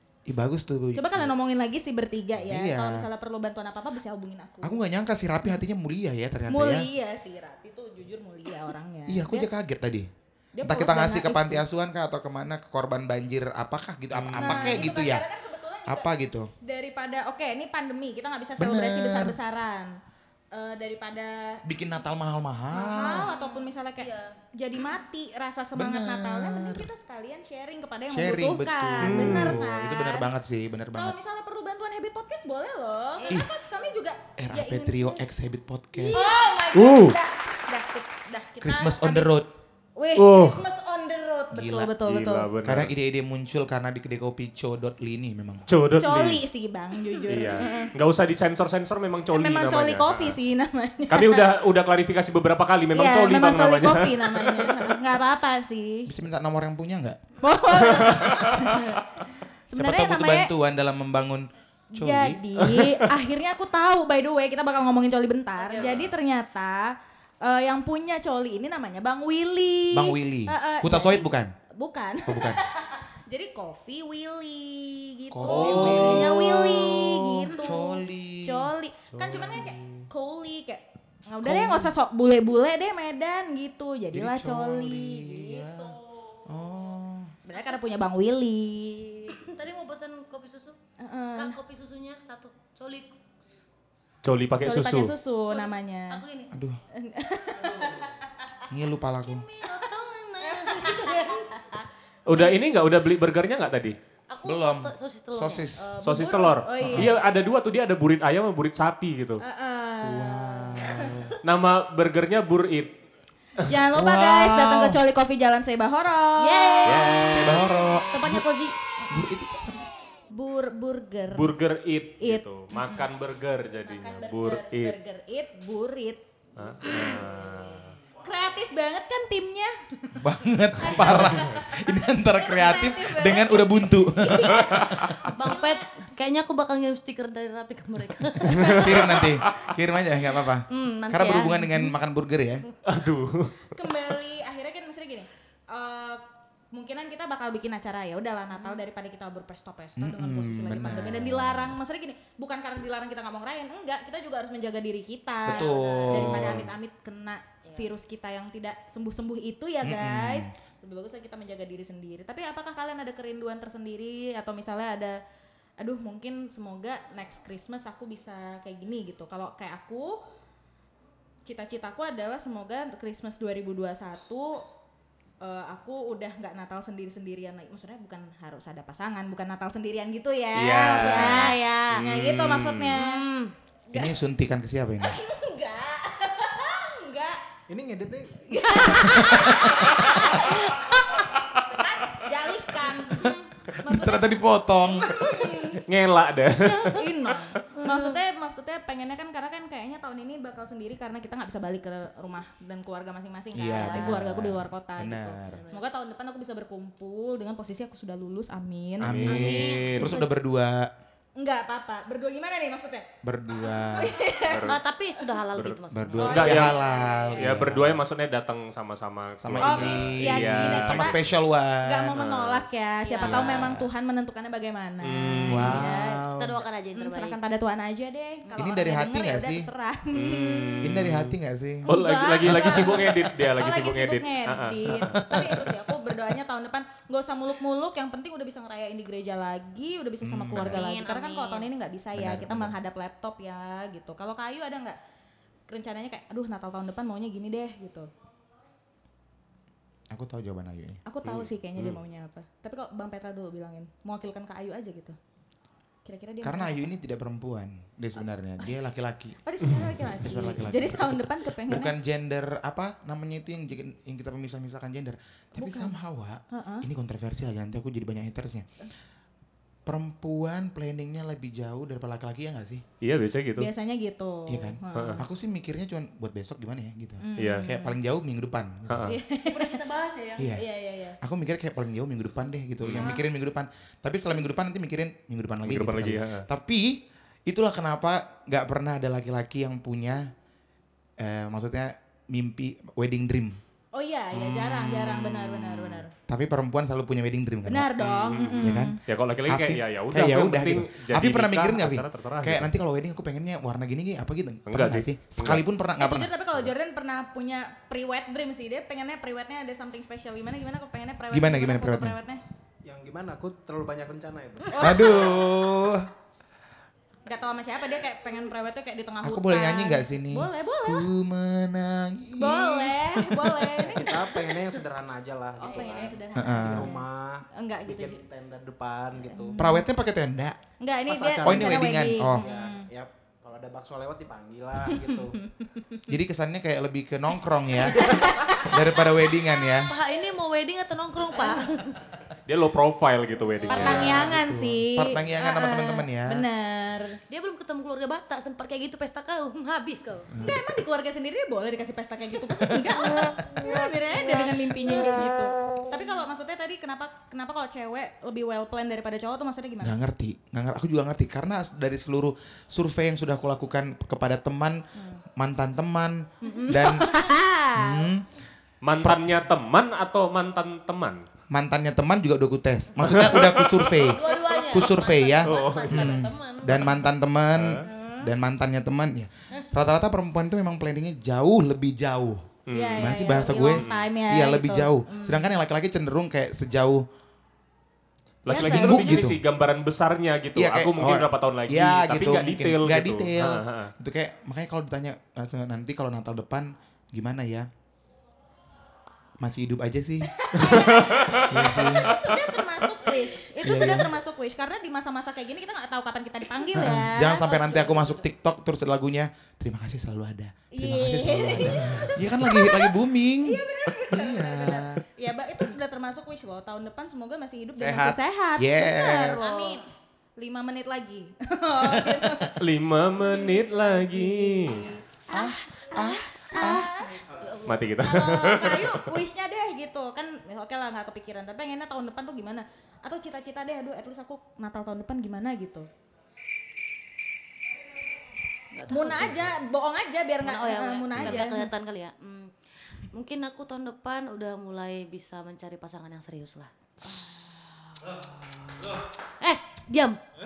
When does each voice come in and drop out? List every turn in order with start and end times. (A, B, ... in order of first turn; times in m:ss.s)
0:00.3-0:01.3 A
0:01.0-0:04.8 B
0:02.4-0:03.1 A
0:04.6-0:06.9 A
0:06.5-0:09.5 B
0:09.1-0:10.1 A
0:10.6-0:11.6 B
0:10.6-0:15.2 A
0:14.1-0:14.8 C
0:14.4-0:16.1 B
0:15.9-0:16.5 A
0:16.6-0:19.9 B
0:18.6-0:19.4 A
0:20.5-0:21.6 B
0:21.6-0:23.3 A
0:22.7-0:30.3 B
0:22.8-0:24.4 D
0:25.8-0:26.9 A
0:28.1-0:31.2 A
0:29.0-0:29.6 C
0:30.9-0:35.2 B
0:33.2-0:33.5 D
0:34.4-0:36.2 A
0:36.0-0:39.4 B
0:36.1-0:36.5 D
0:36.7-0:37.2 C
0:38.6-0:39.5 A
0:40.0-0:42.5 B
0:40.2-0:40.6 C
0:41.5-0:41.9 A
0:42.0-0:42.9 C
0:42.6-0:45.7 A
0:45.7-0:46.4 C
0:46.0-0:47.9 B
0:47.3-0:50.4 C
0:49.3-0:51.6 B
0:51.1-0:54.9 C
0:52.9-0:56.1 B
0:56.1-0:57.2 A
0:57.4-1:00.5 B
0:57.8-0:58.7 C
0:57.9-0:58.2 D
0:59.7-1:02.4 A
1:01.9-1:26.0 B
1:02.6-1:03.1 C
1:05.6-1:06.1 D
1:09.9-1:11.5 A
1:12.2-1:12.6 A
1:15.3-1:18.7 A
1:15.5-1:16.3 C
1:15.6-1:16.0 D
1:19.2-1:20.0 C
1:21.4-1:21.9 A
1:24.1-1:25.9 A
1:26.5-1:27.3 A
1:27.4-1:29.5 B
1:29.3-1:30.8 D
1:31.0-1:31.6 B
1:31.4-1:33.2 D
1:34.2-1:35.1 C
1:34.6-1:36.2 B
1:35.5-1:36.5 D
1:36.5-1:36.8 A
1:36.9-1:38.1 B
1:38.7-1:39.5 A
1:39.2-1:41.5 D
1:40.4-1:41.8 B
1:42.3-1:44.0 C
1:44.3-1:45.7 D
1:44.4-1:45.9 A
1:45.8-1:47.2 B
1:46.0-1:49.4 C
1:46.8-1:47.1 A
1:49.4-1:51.2 B
1:50.0-1:51.4 A
1:51.4-1:53.0 C
1:53.6-1:58.0 B
1:53.9-1:55.0 A
1:56.4-1:58.8 D
1:56.8-1:57.6 C
1:57.3-1:58.5 A
1:59.1-1:59.8 A
2:00.3-2:01.6 B
2:01.3-2:05.0 C
2:02.2-2:03.1 B
2:03.8-2:06.2 B
2:06.6-2:08.0 C
2:06.9-2:07.1 B
2:08.2-2:09.7 B
2:10.1-2:15.2 A
2:10.8-2:15.8 B
2:10.8-2:11.3 D
2:11.0-2:11.4 C
2:14.8-2:19.4 D
2:18.5-2:19.3 C
2:18.7-2:22.7 A
2:20.7-2:21.9 D
2:22.8-2:23.7 C
2:23.7-2:45.2 B
2:28.5-2:28.8 D
2:30.0-2:31.8 A
2:35.4-2:36.7 A
2:35.5-2:36.4 D
2:37.6-2:37.9 D
2:39.8-2:40.5 A
2:45.8-2:50.2 B
2:51.4-2:54.6 B
2:55.4-3:03.2 B
3:00.6-3:03.0 C
3:00.8-3:02.1 D
3:03.0-3:03.5 D
3:03.9-3:04.2 B
3:03.9-3:05.2 A
3:05.0-3:07.4 B
3:07.7-3:09.0 E
3:08.5-3:15.8 B
3:09.1-3:10.1 A
3:09.9-3:10.4 D
3:13.8-3:15.4 A
3:15.8-3:17.0 C
3:16.7-3:29.6 B
3:17.7-3:18.2 D
3:23.5-3:25.6 A
3:23.7-3:24.2 D
3:25.4-3:25.8 D
3:29.0-3:30.9 A
3:29.0-3:30.2 C
3:29.3-3:30.2 D
3:31.4-3:34.7 B
3:33.2-3:34.2 A
3:34.5-3:34.8 C
3:34.7-3:37.3 D
3:35.5-3:36.8 C
3:35.9-3:38.0 A
3:36.2-3:37.7 B
3:37.4-3:41.1 C
3:39.4-3:42.3 A
3:39.6-3:41.2 B
3:41.8-3:46.2 B
3:42.2-3:42.6 C
3:43.0-3:43.7 D
3:43.2-3:43.9 A
3:45.0-3:45.8 C
3:45.4-3:46.6 A
3:46.4-3:47.4 D
3:46.9-3:50.8 B
3:48.6-3:49.7 A
3:50.1-3:55.2 C
3:50.8-3:51.9 A
3:51.9-4:05.0 B
3:52.5-3:52.8 A
3:54.9-3:55.7 A
4:00.2-4:00.9 A
4:00.6-4:01.7 D
4:02.1-4:02.8 A
4:05.7-4:08.1 B
4:10.1-4:11.0 A
4:11.0-4:15.2 B
4:11.2-4:12.0 C
4:16.0-4:16.9 B
4:16.4-4:28.7 A
4:19.4-4:22.0 B
4:25.6-4:26.0 B
4:26.5-4:26.9 B
4:29.9-4:32.8 A
4:33.0-4:33.7 C
4:33.6-4:35.2 B
4:34.5-4:39.2 A
4:34.9-4:35.2 C
4:37.2-4:38.0 B
4:37.4-4:37.7 C
4:38.9-4:39.2 C
4:39.1-4:39.8 B
4:39.5-4:40.6 D
4:40.4-4:40.6 A
4:40.5-4:41.2 B
4:41.2-4:50.3 A
4:42.8-4:43.1 C
4:43.0-4:43.2 B
4:45.7-4:46.5 C
4:51.2-4:53.6 A
4:53.9-4:56.1 B
4:54.3-5:06.3 A
4:57.7-4:59.0 B
4:58.0-5:02.7 C
5:04.7-5:05.6 C
5:06.0-5:12.4 B
5:11.3-5:12.2 A
5:12.8-5:14.8 E
5:14.6-5:15.5 B
5:14.8-5:16.1 A
5:17.3-5:21.1 B
5:19.2-5:23.6 A
5:22.3-5:24.7 B
5:23.7-5:29.6 E
5:25.6-5:28.2 B
5:25.6-5:26.2 D
5:26.4-5:26.9 A
5:29.2-5:29.9 B
5:29.6-5:30.6 A
5:30.8-5:32.9 B
5:31.1-5:35.4 E
5:31.4-5:32.4 A
5:34.9-5:36.1 B
5:36.1-5:39.9 A
5:37.8-5:38.8 B
5:39.8-5:42.0 D
5:41.3-5:41.7 B
5:42.5-5:44.4 C
5:43.6-5:44.2 D
5:43.7-5:47.2 B
5:43.7-5:46.5 A
5:47.3-5:50.3 D
5:50.3-5:50.6 A
5:50.4-5:59.9 B
5:52.5-5:53.6 A
5:59.8-6:07.1 A
6:05.0-6:05.2 B
6:06.4-6:08.1 B
6:07.7-6:08.3 A
6:08.8-6:11.2 C
6:09.0-6:09.3 A
6:11.5-6:27.0 A
6:13.0-6:14.2 C
6:14.0-6:17.0 D
6:15.4-6:16.2 C
6:17.5-6:17.9 C
6:17.8-6:18.3 B
6:22.7-6:24.1 C
6:22.7-6:25.5 B
6:28.4-6:33.9 C
6:28.5-6:29.2 B
6:28.5-6:29.4 A
6:30.6-6:37.7 A
6:39.4-6:40.9 A
6:40.4-6:48.2 B
6:40.6-6:42.6 C
6:41.5-6:42.1 A
6:43.6-6:44.2 A
6:46.7-6:55.0 A
6:50.7-6:59.8 B
6:57.8-6:59.6 A
6:59.4-6:59.9 D
7:00.4-7:02.6 B
7:01.8-7:02.5 A
7:02.6-7:04.9 C
7:03.2-7:15.9 B
7:05.3-7:06.9 A
7:06.5-7:07.7 D
7:07.6-7:09.0 C
7:18.7-7:19.5 D
7:18.9-7:21.7 B
7:20.4-7:30.2 D